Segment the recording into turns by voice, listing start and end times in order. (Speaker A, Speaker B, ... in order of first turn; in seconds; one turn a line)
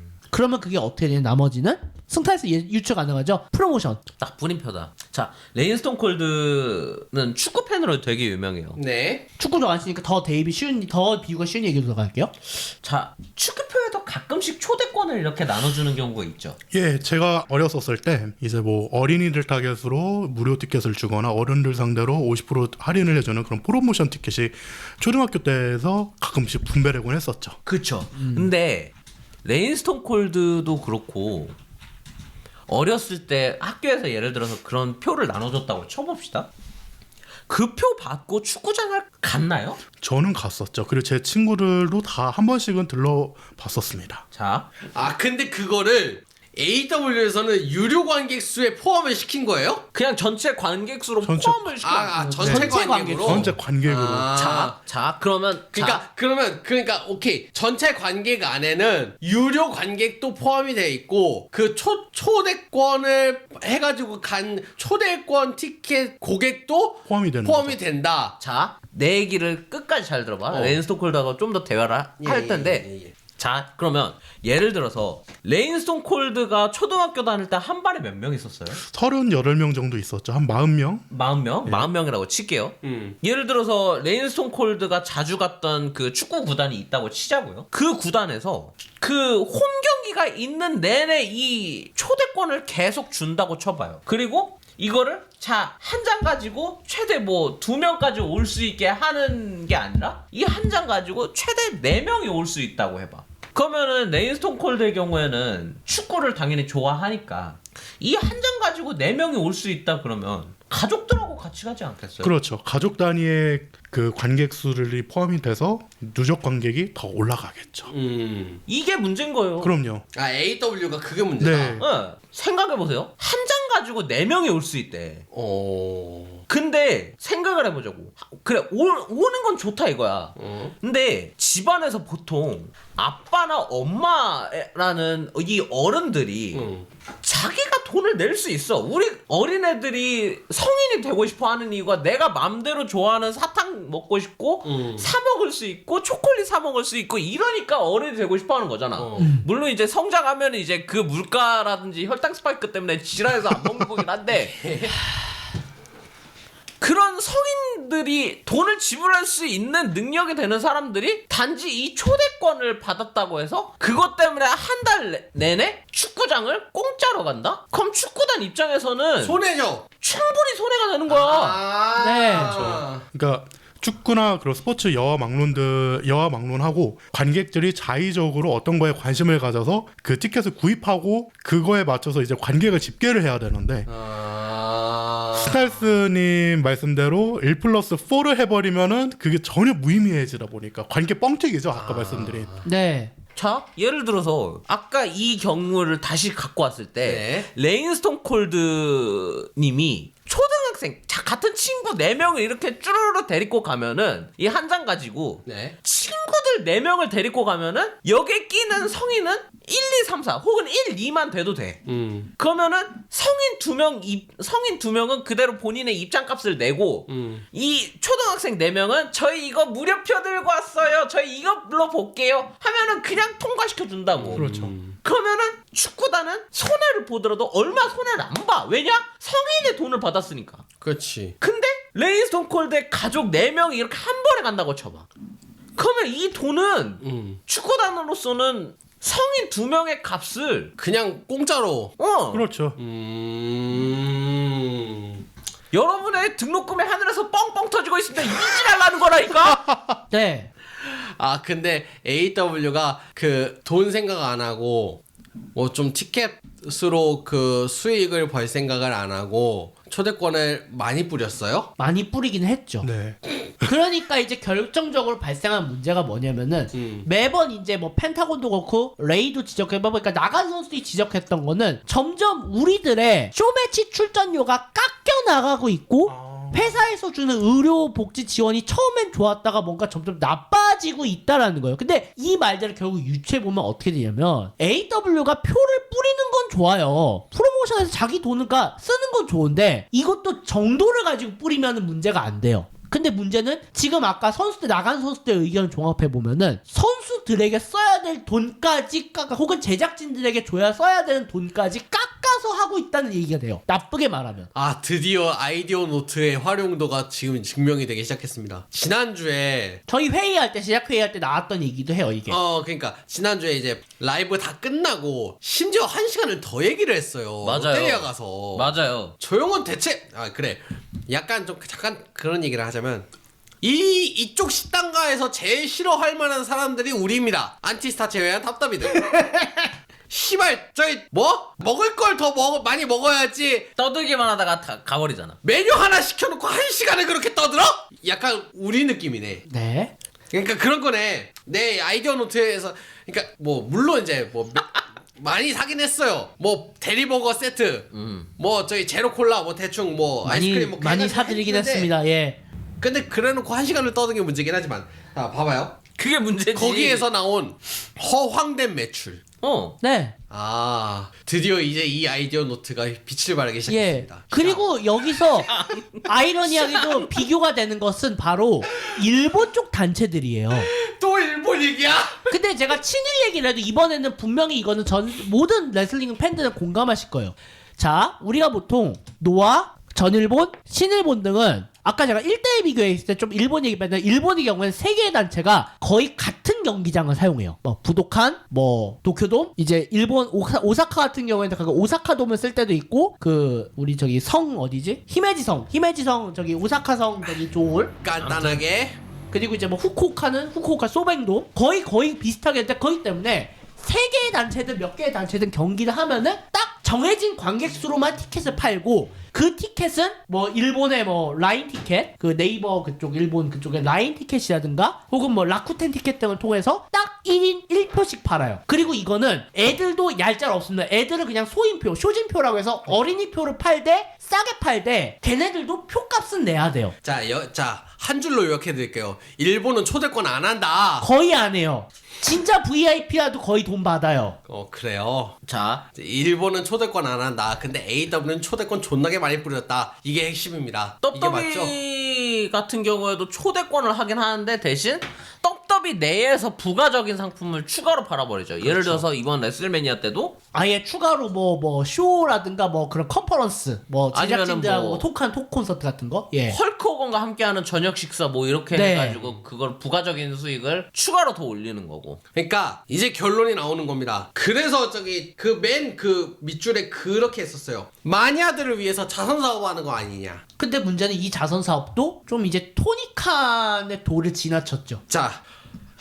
Speaker A: 0.3-4.0
Speaker B: 4.2-8.8
Speaker C: 8.8-9.2
Speaker A: 9.4-12.3
Speaker B: 12.8-16.6
Speaker D: 16.7-27.6
Speaker B: 27.6-28.9
Speaker A: 28.1-28.5
Speaker B: 29.4-31.5
Speaker B: 32.7-36.5
Speaker B: 37.5-39.8
Speaker D: 40.0-44.2
Speaker B: 44.3-44.7
Speaker C: 44.9-49.9
Speaker B: 49.9-52.2
Speaker D: 51.2-51.7
Speaker C: 51.8-54.8
Speaker A: 52.1-53.5
Speaker D: 52.4-54.3
Speaker B: 54.3-56.0
Speaker C: 55.7-68.4
Speaker D: 67.1-67.8
Speaker B: 68.4-72.9
Speaker C: 70.5-70.8
Speaker C: 72.2-73.1
Speaker B: 73.4-78.8
Speaker D: 78.8-81.1
Speaker B: 81.1-112.3
Speaker C: 82.8-83.2
Speaker D: 112.2-117.9
Speaker C: 117.9-118.6
Speaker B: 118.7-119.7
Speaker D: 119.6-120.0
Speaker C: 120.1-121.8
Speaker D: 121.4-121.9
Speaker B: 121.8-125.2
Speaker C: 125.3-126.5
Speaker B: 126.5-136.7
Speaker C: 130.4-130.8
Speaker C: 136.5-136.9
Speaker B: 137.2-154.6
Speaker C: 144.6-145.1
Speaker C: 149.0-149.3
Speaker A: 149.2-149.5
Speaker C: 154.3-155.0
Speaker B: 156.8-169.4
Speaker C: 169.2-169.9
Speaker B: 170.0-171.6
Speaker C: 171.1-173.1
Speaker A: 172.0-172.6
Speaker D: 172.3-183.9
Speaker C: 183.9-185.9
Speaker D: 185.4-192.5
Speaker C: 191.7-192.6
Speaker A: 192.6-193.1
Speaker B: 193.4-211.8
Speaker C: 197.0-197.5
Speaker C: 205.4-205.8
Speaker C: 211.9-212.3
Speaker B: 212.4-230.7
Speaker C: 217.1-217.4
Speaker C: 224.2-225.0
Speaker D: 224.4-224.7
Speaker C: 230.8-231.3
Speaker B: 231.4-235.1
Speaker B: 235.8-240.7
Speaker C: 237.0-237.4
Speaker C: 240.8-241.9
Speaker B: 242.0-242.4
Speaker D: 242.3-242.8
Speaker C: 242.8-245.2
Speaker B: 245.7-249.7
Speaker D: 249.7-250.0
Speaker A: 250.1-250.5
Speaker C: 250.8-255.0
Speaker C: 255.6-261.7
Speaker A: 261.8-262.9
Speaker D: 262.8-263.7
Speaker A: 263.6-304.5
Speaker C: 266.7-267.1
Speaker D: 276.1-276.8
Speaker C: 304.6-309.8
Speaker A: 309.9-312.4
Speaker C: 312.3-323.1
Speaker B: 317.4-319.1
Speaker C: 323.6-329.1
Speaker A: 328.9-329.7
Speaker C: 330.1-333.7
Speaker B: 333.8-335.4
Speaker C: 335.4-339.4
Speaker A: 339.5-339.9
Speaker C: 340.3-351.9
Speaker B: 347.9-348.3
Speaker A: 350.2-352.4
Speaker C: 352.8-355.8
Speaker B: 356.0-357.1
Speaker C: 356.5-359.2
Speaker B: 359.4-359.8
Speaker A: 359.8-360.1
Speaker C: 360.3-364.7
Speaker A: 363.7-370.7
Speaker B: 365.5-366.0
Speaker B: 366.6-367.0
Speaker C: 370.6-372.4
Speaker A: 372.3-397.9
Speaker C: 398.0-399.0
Speaker B: 398.2-398.6
Speaker A: 399.3-426.9
Speaker C: 427.0-431.1
Speaker A: 431.0-434.4
Speaker C: 434.5-435.4
Speaker B: 435.4-435.8
Speaker C: 435.9-441.7
Speaker B: 441.0-450.4
Speaker C: 448.6-449.1
Speaker A: 450.5-456.6
Speaker B: 454.1-455.1
Speaker B: 456.5-462.2
Speaker A: 458.7-459.2
Speaker C: 462.4-470.4
Speaker A: 470.6-475.0
Speaker C: 475.1-475.4